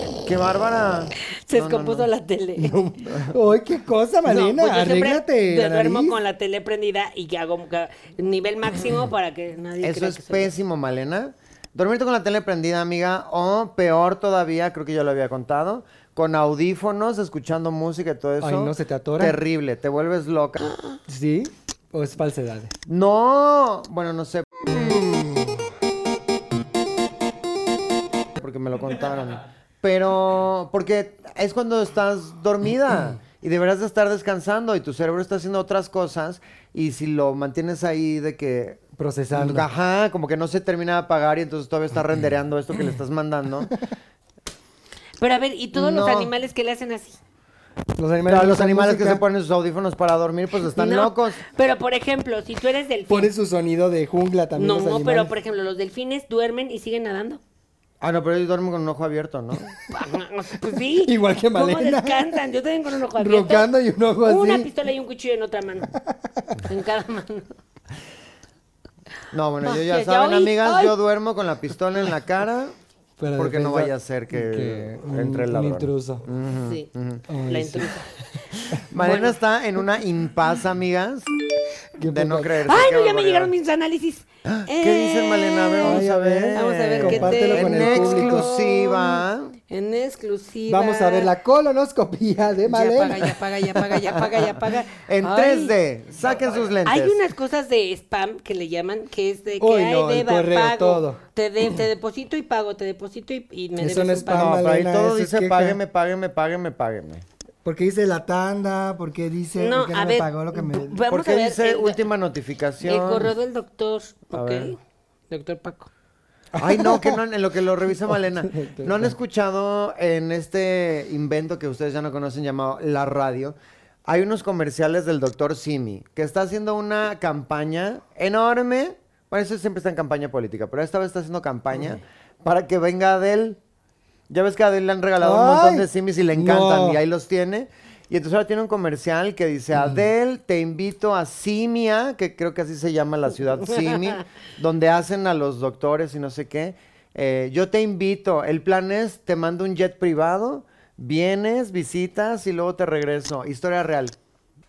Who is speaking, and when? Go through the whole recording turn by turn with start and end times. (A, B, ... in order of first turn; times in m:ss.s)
0:00.2-0:02.1 A
0:01.5-0:02.8 B
0:02.6-0:06.2 C
0:04.2-0:10.5 B
0:09.8-0:20.8 A
0:18.4-0:19.4 C
0:21.1-0:22.7 C
0:22.9-0:25.3 A
0:28.4-0:43.8 A
0:39.0-0:39.7 C
0:45.2-0:47.2 B
0:45.7-0:46.3 A
0:48.0-0:49.2 C
0:48.3-0:51.4 A
0:50.8-0:53.3 B
0:53.1-0:55.3 C
0:54.6-0:57.4 B
0:58.0-0:59.7 A
0:59.9-1:03.7 B
1:01.0-1:02.4 C
1:03.1-1:04.7 C
1:04.2-1:06.0 B
1:06.2-1:06.6 C
1:06.6-1:07.5 B
1:09.3-1:12.8 A
1:09.6-1:11.0 B
1:13.2-1:16.2 C
1:13.4-1:17.3 A
1:17.3-1:17.9 C
1:17.5-1:18.4 B
1:18.7-1:21.3 A
1:18.8-1:19.3 C
1:22.0-1:22.6 C
1:22.0-1:23.5 A
1:22.6-1:26.0 B
1:24.5-1:29.6 A
1:25.8-1:28.5 C
1:26.5-1:31.3 B
1:30.7-1:34.0 C
1:32.7-1:35.7 B
1:34.9-1:37.2 A
1:36.8-1:44.5 B
1:39.6-1:41.2 C
1:43.8-1:45.8 C
1:44.3-1:47.2 A
1:47.6-1:51.0 C
1:49.6-1:52.0 B
1:51.1-1:53.3 A
1:52.8-1:54.8 B
1:54.3-1:54.7 A
1:55.3-1:55.9 B
1:56.5-1:57.2 C
1:56.6-2:13.6 A
1:58.1-1:59.2 C
2:14.3-2:34.2 A
2:15.2-2:17.0 C
2:23.7-2:24.2 B